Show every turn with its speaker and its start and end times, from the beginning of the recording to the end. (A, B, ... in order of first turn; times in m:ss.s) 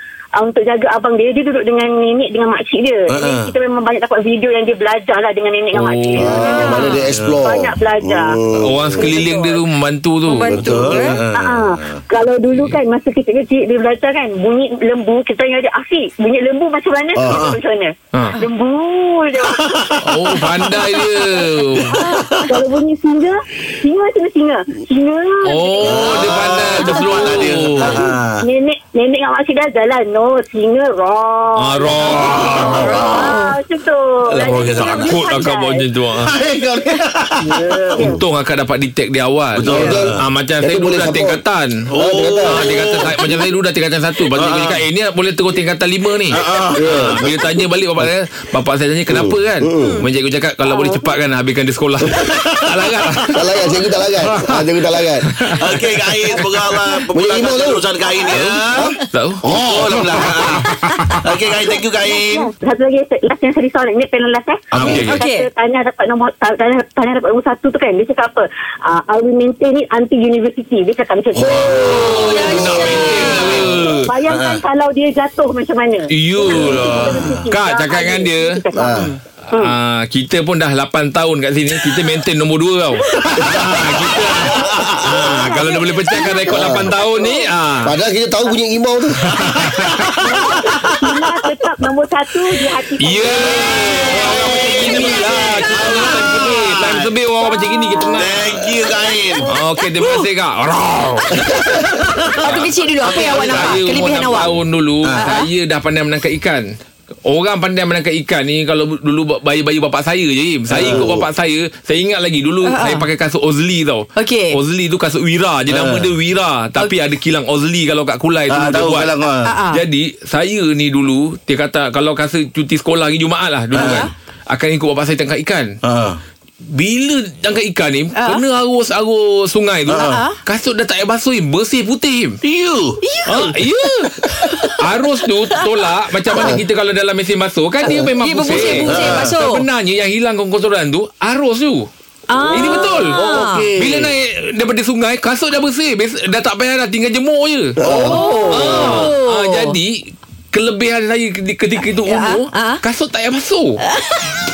0:00.4-0:08.4 A
0:03.1-0:03.5 B
0:05.7-0:07.0 C
0:06.2-0:09.2 D
0:06.3-0:07.1 E
0:07.1-0:07.4 B
0:08.6-0:10.6 C
0:09.0-0:09.6 A
0:10.3-0:11.2 E
0:10.5-0:12.0 B
0:10.6-0:11.0 D
0:11.2-0:21.4 A
0:12.5-0:12.8 C
0:17.1-0:17.4 D
0:17.3-0:17.6 B
0:18.1-0:18.4 C
0:19.5-0:22.6 B
0:20.0-0:22.0 C
0:21.9-0:35.9 A
0:25.4-0:28.0 C
0:25.8-0:28.4 B
0:31.6-0:33.0 C
0:32.0-0:33.3 B
0:33.0-0:33.6 E
0:34.3-0:35.2 B
0:34.6-0:36.3 C
0:36.2-0:38.1 B
0:37.4-0:38.2 A
0:38.0-0:41.8 C
0:39.6-0:40.2 B
0:39.6-0:41.4 D
0:41.9-0:43.1 B
0:41.9-0:42.6 D
0:42.4-0:53.5 C
0:44.3-0:44.8 B
0:46.3-0:47.3 B
0:46.7-0:48.1 D
0:49.1-0:50.0 D
0:49.8-0:50.1 E
0:52.1-0:53.3 B
0:53.3-0:55.3 D
0:54.2-0:54.7 C
0:55.2-0:56.5 C
0:55.5-1:02.5 B
0:57.1-0:57.8 D
0:58.3-1:01.2 C
0:58.8-1:00.4 D
1:02.0-1:12.3 A
1:04.7-1:05.1 B
1:04.7-1:05.2 C
1:05.0-1:05.5 E
1:11.3-1:14.6 B
1:11.8-1:14.1 C
1:11.9-1:13.6 E
1:12.4-1:13.2 D
1:13.3-1:19.7 A
1:16.1-1:18.5 C
1:16.4-1:17.5 B
1:18.7-1:19.1 D
1:19.5-1:28.0 C
1:23.3-1:25.4 B
1:25.1-1:27.4 A
1:26.5-1:27.0 D
1:27.8-1:29.6 D
1:29.2-1:30.1 C
1:29.3-1:30.9 B
1:30.2-1:35.6 A
1:33.0-1:38.5 C
1:33.6-1:37.1 B
1:33.7-1:36.2 E
1:37.5-1:38.2 A
1:38.2-1:39.5 B
1:39.5-1:41.6 C
1:41.4-1:41.8 D
1:41.9-1:42.5 B
1:42.4-1:44.6 E
1:42.4-1:46.6 C
1:43.0-1:43.8 B
1:45.1-1:45.5 E
1:47.3-1:59.1 C
1:50.7-1:51.2 B
1:50.8-1:51.2 D
1:52.6-1:53.1 E
1:54.2-1:54.6 E
1:55.7-1:56.1 B
1:58.5-1:59.5 B
1:59.4-1:59.8 E
1:59.7-2:05.7 C
2:03.7-2:04.0 B
2:03.7-2:04.1 E
2:05.8-2:06.2 B
2:06.7-2:12.4 C
2:08.1-2:08.4 E
2:09.9-2:10.2 B
2:09.9-2:10.4 E
2:12.4-2:13.0 B
2:13.0-2:14.8 E
2:13.3-2:21.9 C
2:16.3-2:16.6 E
2:16.4-2:16.6 D
2:17.8-2:19.6 E
2:18.6-2:19.3 B
2:22.3-2:23.8 E
2:22.5-2:23.2 C
2:22.6-2:24.1 D
2:23.7-2:33.8 C
2:27.8-2:29.1 D
2:27.8-2:29.8 E
2:32.0-2:32.8 E
2:33.8-2:34.4 E